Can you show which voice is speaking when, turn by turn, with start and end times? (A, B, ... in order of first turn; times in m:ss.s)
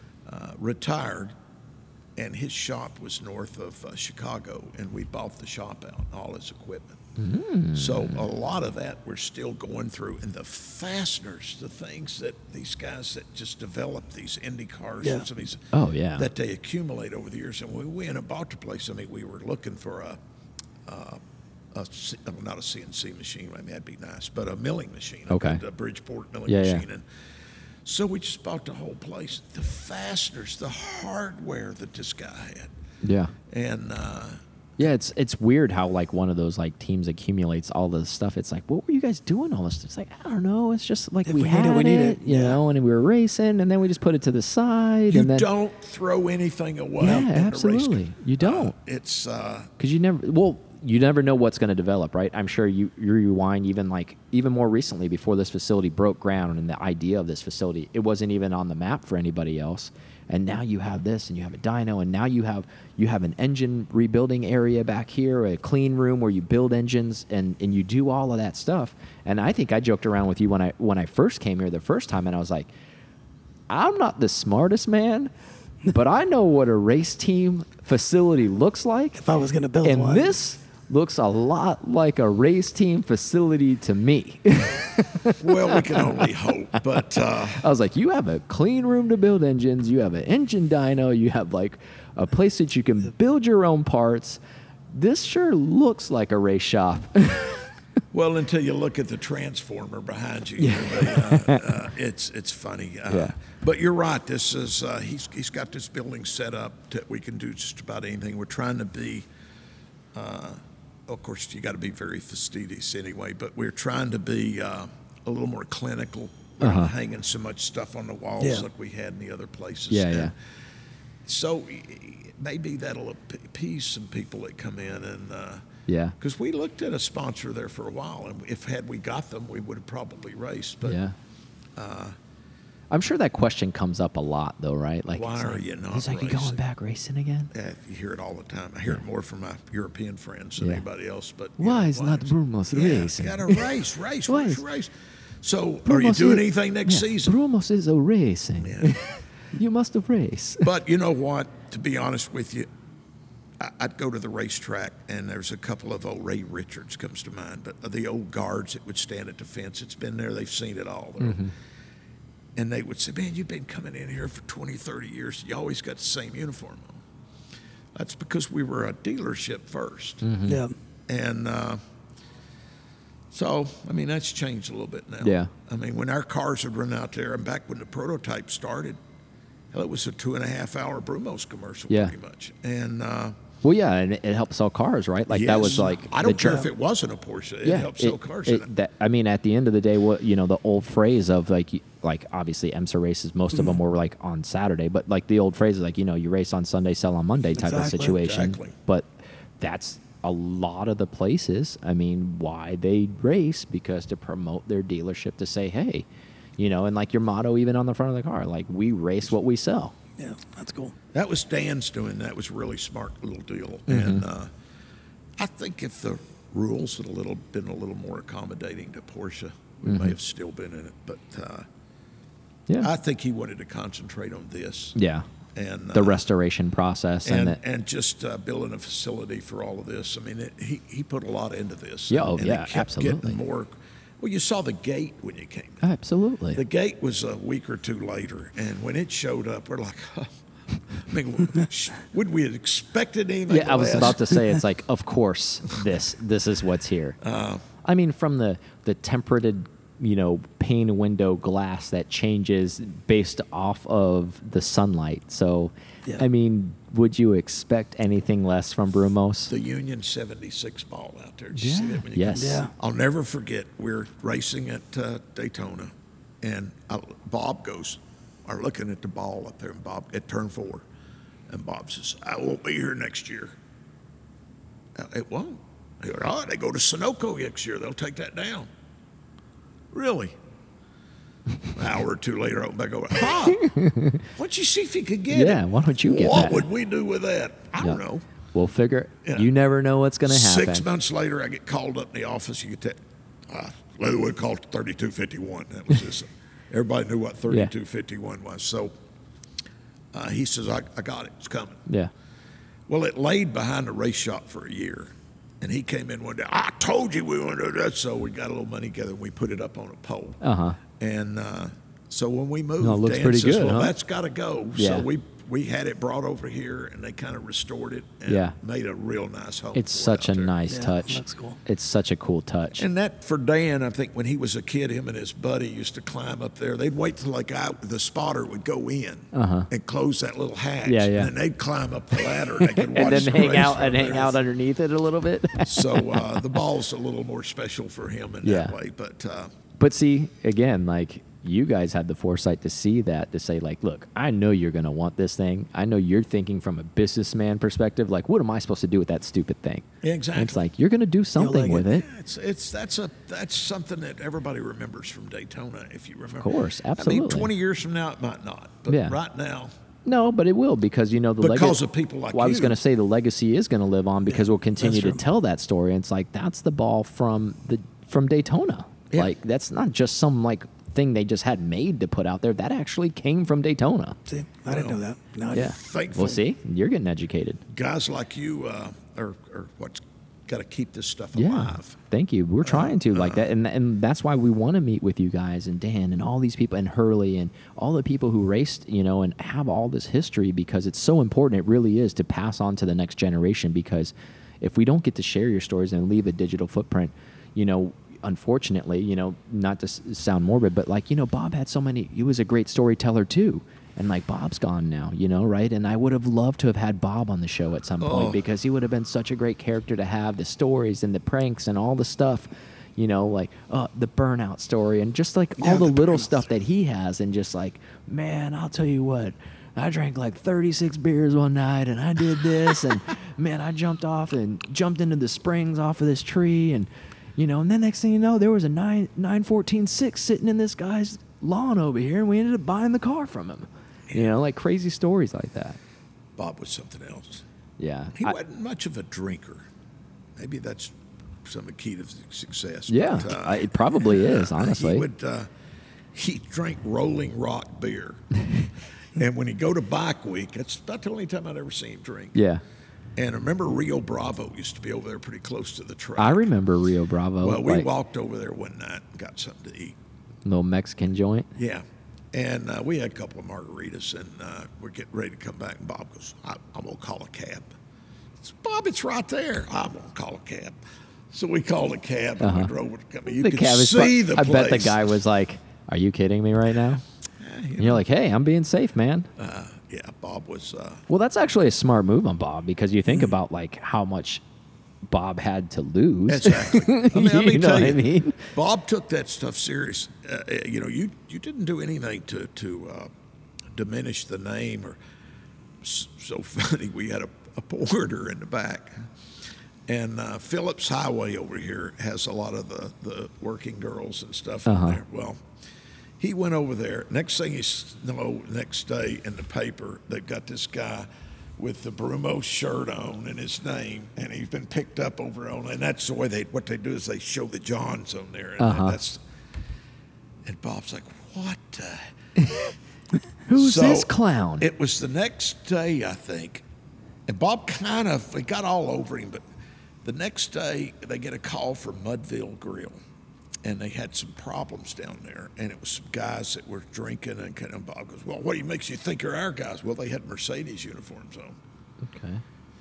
0:00.2-0:01.3 A
0:02.2-0:07.0 A
0:07.2-0:08.3 B
0:07.7-0:20.2 A
0:15.7-0:16.3 B
0:20.9-0:21.2 A
0:21.7-0:27.1 A
0:25.3-0:25.6 B
0:26.5-0:26.8 B
0:27.8-0:32.7 A
0:33.0-0:33.3 B
0:33.5-0:34.8 A
0:34.8-0:45.5 B
0:41.3-0:42.6 C
0:45.1-0:49.7 A
0:47.0-0:48.8 B
0:49.8-1:12.7 B
1:13.7-1:15.3 B
1:15.9-1:19.2 B
1:19.2-1:20.4 C
1:19.8-1:34.4 B
1:25.4-1:27.7 A
1:34.9-1:37.7 B
1:38.1-1:49.3 A
1:40.6-1:41.7 B
1:43.1-1:43.4 B
1:50.1-2:00.3 A
1:56.6-1:56.9 B
1:58.4-1:58.6 C
1:59.9-2:00.3 B
2:01.2-2:05.6 A
2:05.9-2:06.2 B
2:06.2-2:11.0 A
2:10.8-2:11.2 B
2:11.8-2:12.2 A
2:12.9-2:17.5 B
2:15.2-2:16.6 A
2:17.5-2:27.4 A
2:21.6-2:23.7 B
2:24.3-2:24.6 B
2:25.9-2:30.7 B
2:28.6-2:29.0 A
2:30.6-2:32.7 A
2:33.6-2:41.4 A
2:41.2-2:41.5 B
2:42.6-2:47.0 A
2:48.0-2:50.2 A
2:50.2-2:50.6 B
2:50.5-2:50.7 C
2:51.1-2:51.8 A
2:53.3-2:59.0 A
2:55.2-2:55.5 B
2:59.7-3:03.4 A
3:01.9-3:02.1 B
3:03.6-3:06.7 B
3:05.3-3:08.7 A
3:07.6-3:26.0 B
3:17.6-3:18.2 C
3:17.9-3:18.8 A
3:26.6-3:30.0 B
3:30.2-3:30.9 C
3:31.1-3:34.5 A
3:33.9-3:34.2 B
3:35.4-3:41.7 A
3:39.8-3:40.2 B
3:42.8-3:45.0 A
3:45.0-3:45.3 B
3:45.6-3:46.2 A
3:45.9-3:47.6 B
3:47.2-3:55.9 A
3:52.1-3:53.4 B
3:55.8-3:56.6 B
3:56.5-4:00.4 A
4:00.9-4:04.4 A
4:03.5-4:07.2 B
4:07.2-4:07.6 A
4:07.8-4:19.5 B
4:19.5-4:30.9 A
4:21.6-4:22.7 B
4:22.3-4:22.7 C
4:31.5-4:33.6 A
4:35.0-4:38.7 A
4:39.9-4:40.4 A
4:41.7-4:43.7 A
4:43.5-4:44.3 B
4:44.4-4:48.2 A
4:45.3-4:46.7 B
4:48.5-4:50.9 B
4:50.2-4:58.9 A
5:00.1-5:01.9 A
5:01.9-5:02.1 B
5:02.9-5:10.4 A
5:10.4-5:10.8 B
5:10.9-5:20.5 A
5:12.8-5:13.9 B
5:14.8-5:15.1 B
5:18.3-5:18.6 B
5:19.8-5:22.8 B
5:20.7-5:21.6 C
5:22.8-5:34.4 A
5:29.3-5:29.7 B
5:30.8-5:31.3 B
5:32.6-5:36.6 B
5:35.6-5:39.5 A
5:38.4-5:38.8 B
5:39.8-5:52.1 B
5:50.0-5:50.7 A
5:51.4-5:51.9 C
5:51.9-5:59.7 A
5:56.4-5:57.5 B
5:58.9-5:59.2 B
6:00.0-6:01.8 B
6:01.4-6:02.8 A
6:02.3-6:14.2 B
6:04.3-6:05.2 C
6:14.3-6:15.8 C
6:14.7-6:15.0 A
6:15.5-6:17.6 B
6:15.5-6:16.4 A
6:17.7-6:22.0 A
6:21.4-7:15.8 B
6:22.6-6:23.5 A
6:48.0-6:48.4 A
6:55.6-6:56.2 C
7:14.1-7:14.4 A
7:16.4-7:17.4 A
7:17.8-7:18.4 B
7:18.2-7:19.7 A
7:20.4-7:25.5 A
7:22.9-7:25.1 B
7:26.1-7:28.4 A
7:29.1-7:32.4 A
7:32.4-7:32.6 B
7:33.2-7:36.5 A
7:36.2-7:37.9 B
7:37.4-7:40.0 A
7:40.4-7:41.5 B
7:41.6-7:47.7 A
7:48.4-7:50.8 A
7:51.3-7:55.0 A
7:52.4-7:52.7 B
7:53.3-7:57.0 B
7:57.4-7:58.0 A
7:57.8-7:59.3 B
7:59.4-8:01.0 A
8:01.1-8:04.4 B
8:05.1-8:08.5 B
8:06.3-8:13.1 A
8:13.7-8:15.0 A
8:15.8-8:19.1 A
8:19.9-8:25.4 A
8:24.7-8:25.0 B
8:26.2-8:39.2 A
8:38.6-8:39.0 B
8:40.4-8:42.1 A
8:43.5-8:44.7 B
8:43.5-8:46.6 A
8:47.3-8:49.4 A
8:50.0-8:53.0 A
8:53.6-9:01.6 A
9:02.0-9:02.4 B